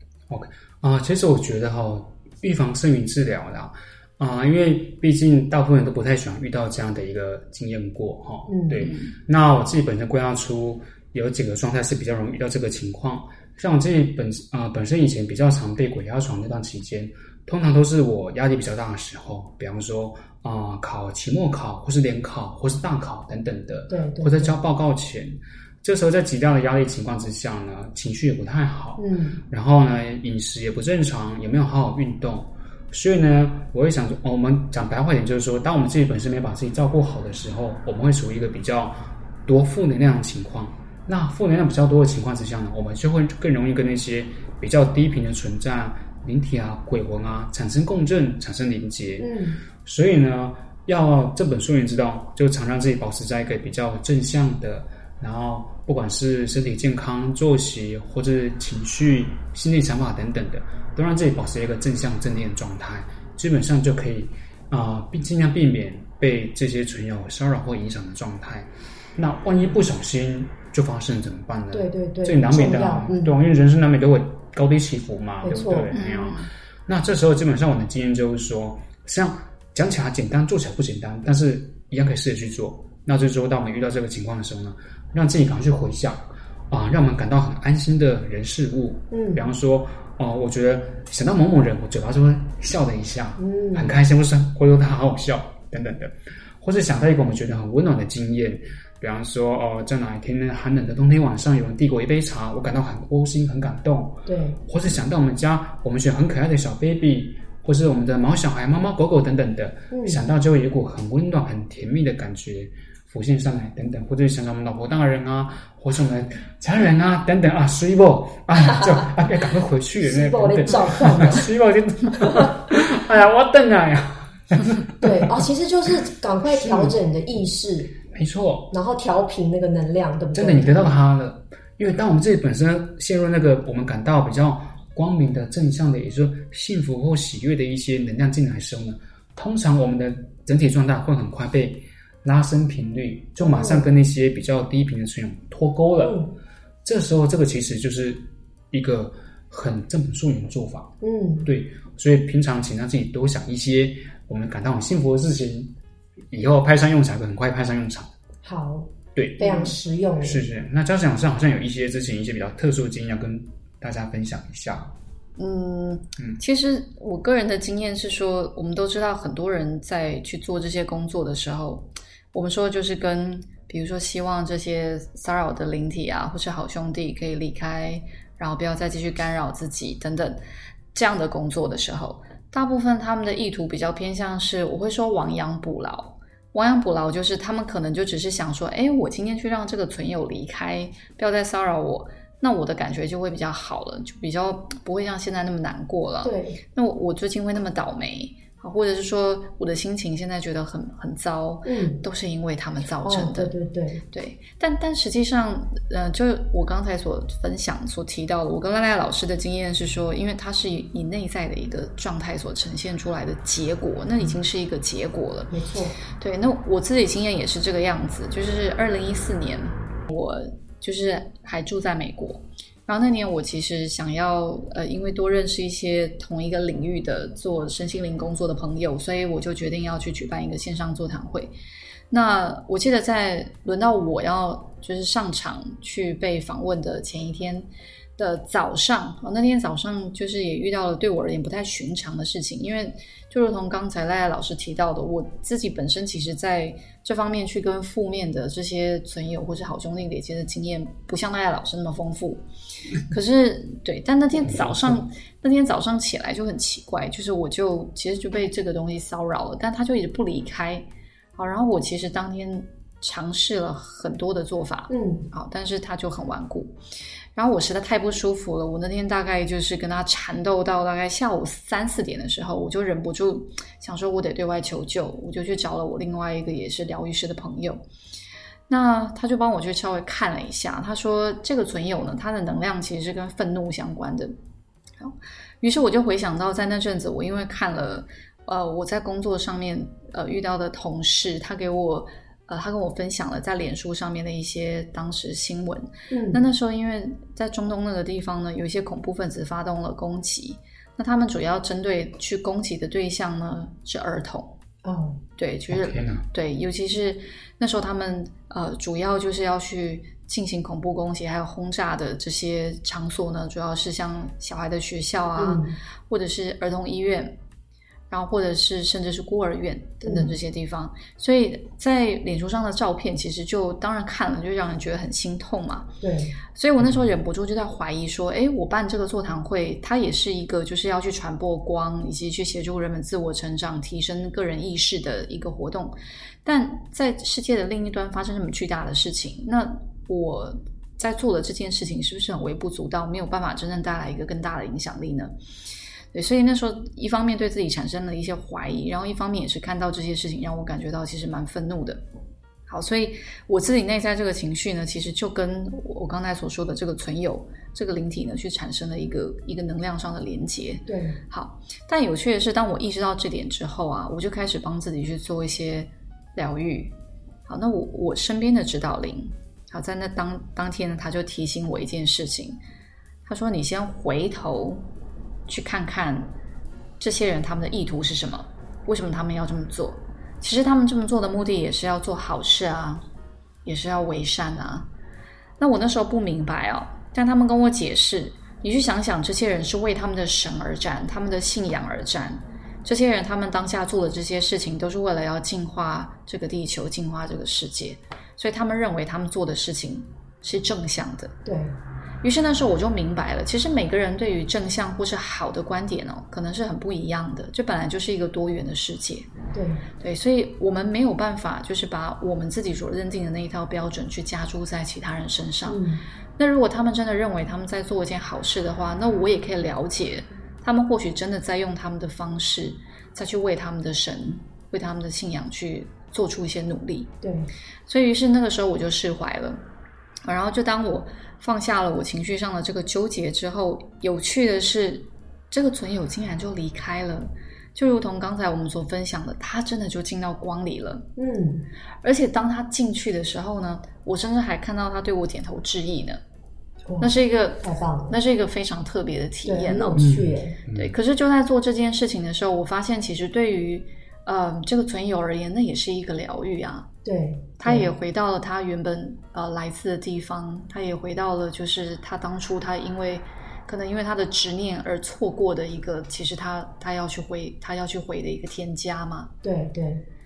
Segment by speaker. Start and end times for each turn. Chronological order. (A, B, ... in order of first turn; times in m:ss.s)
0:00.3-0:49.3 A
0:08.5-0:08.8 B
0:08.8-0:09.1 C
0:23.9-0:24.5 B
0:29.0-0:29.4 B
0:49.2-0:49.6 B
0:49.8-2:05.1 A
1:11.7-1:13.3 B
1:15.4-1:15.9 B
1:15.9-1:16.5 C
1:29.1-1:29.4 B
1:33.4-1:33.9 B
1:44.3-1:44.6 B
1:49.9-1:50.2 B
1:58.6-1:59.1 B
2:00.0-2:01.5 B
2:05.0-2:07.9 B
2:06.6-2:07.0 A
2:08.1-2:08.7 A
2:08.7-2:10.9 B
2:10.3-2:26.2 A
2:23.4-2:23.8 B
2:26.0-2:26.3 B
2:26.8-2:30.9 A
2:31.0-2:31.5 B
2:31.4-2:35.7 A
2:36.3-2:38.1 A
2:38.4-2:40.4 B
2:39.1-2:44.9 A
2:45.4-3:00.4 C
3:00.9-3:23.5 C
3:16.2-3:16.6 B
3:21.6-3:22.0 B
3:23.0-3:24.0 B
3:24.1-3:35.5 C
3:35.5-3:35.9 B
3:36.2-3:51.5 C
3:52.1-4:12.4 C
4:13.1-4:26.8 C
4:14.4-4:15.0 A
4:24.9-4:25.3 B
4:27.3-4:37.8 C
4:38.7-4:44.3 C
4:45.0-5:04.6 C
4:56.1-4:56.4 B
5:04.8-5:05.2 B
5:05.4-5:17.4 C
5:05.7-5:06.2 A
5:15.4-5:15.8 B
5:18.1-5:25.9 C
5:20.0-5:20.3 B
5:26.0-5:26.3 B
5:26.5-5:45.3 C
5:26.8-5:27.1 A
5:46.1-5:52.0 C
5:52.7-6:06.9 C
6:00.9-6:01.2 B
6:07.4-6:12.6 C
6:13.2-6:14.8 C
6:15.5-6:16.3 C
6:17.0-6:23.0 C
6:23.6-6:24.9 C
6:25.6-6:41.3 C
6:41.4-6:41.7 B
6:42.2-6:49.3 C
6:49.5-6:49.8 B
6:50.0-6:55.8 C
6:55.7-6:56.0 B
6:56.4-7:07.1 C
7:07.2-7:07.5 B
7:07.9-7:09.6 C
7:10.2-7:21.1 C
7:21.2-7:21.6 B
7:22.0-7:26.2 C
7:26.9-7:28.1 B
7:27.0-7:30.0 C
7:29.4-7:30.5 B
7:30.0-7:31.0 A
7:30.7-7:36.9 C
7:37.0-7:37.9 B
7:37.6-7:49.3 C
7:49.4-7:50.0 B